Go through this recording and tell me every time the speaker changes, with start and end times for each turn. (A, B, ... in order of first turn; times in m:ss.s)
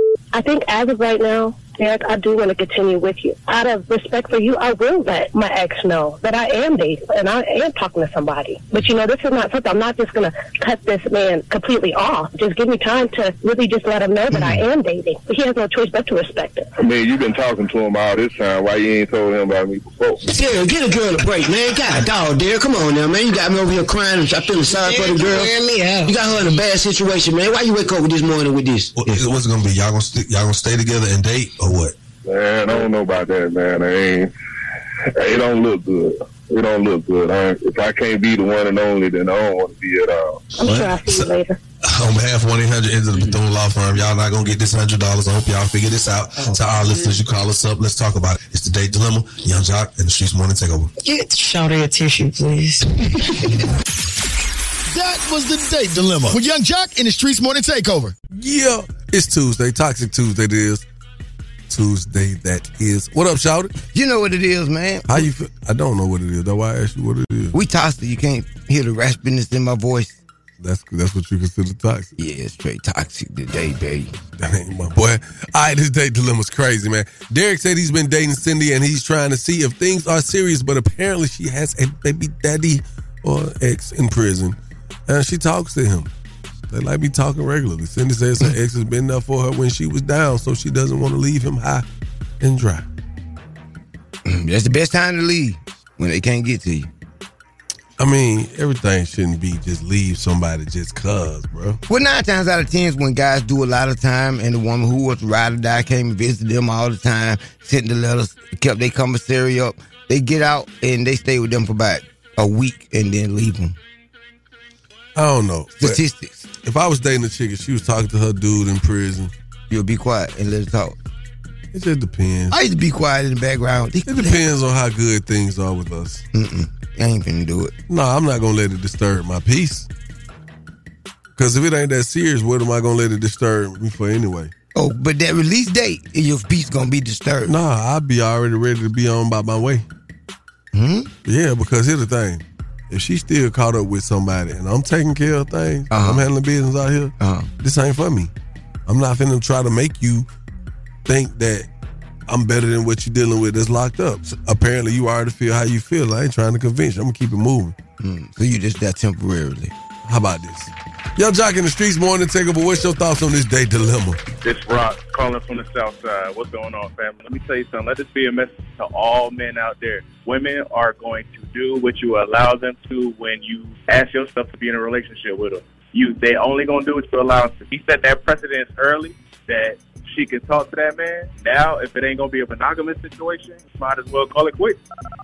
0:00.3-0:16.7 A
0:16.8-0:20.2 B
0:20.3-0:28.9 C
0:24.6-0:26.2 D
0:29.0-0:32.0 E
0:32.2-0:34.3 B
0:35.2-0:40.5 B
0:40.6-0:41.6 A
0:41.9-0:50.9 E
0:51.0-0:53.2 D
0:54.9-0:58.1 F
0:58.3-1:00.8 G
1:01.7-1:03.7 G
1:03.9-1:05.3 H
1:05.1-1:07.6 G
1:07.5-1:10.2 H
1:10.6-1:12.1 G
1:12.2-1:14.1 H
1:14.4-1:24.6 G
1:25.1-1:26.1 G
1:26.7-1:31.8 G
1:32.4-1:32.8 G
1:34.2-1:36.9 H
1:38.0-1:41.8 G
1:41.9-1:53.8 H
1:55.2-1:56.0 G
1:55.8-1:56.4 H
1:56.6-1:59.3 G
1:59.7-2:01.0 H
2:01.7-2:02.6 G
2:02.5-2:04.4 H
2:04.1-2:06.2 G
2:06.3-2:07.7 H
2:07.9-2:09.9 G
2:11.4-2:14.5 G
2:14.8-2:17.5 H
2:17.5-2:19.8 G
2:20.7-2:21.1 H
2:21.2-2:28.3 G
2:25.9-2:26.3 H
2:27.2-2:27.5 H
2:28.9-2:30.3 G
2:31.1-2:31.7 G
2:32.3-2:37.8 G
2:38.0-2:39.7 H
2:40.0-2:44.2 G
2:44.4-3:04.8 I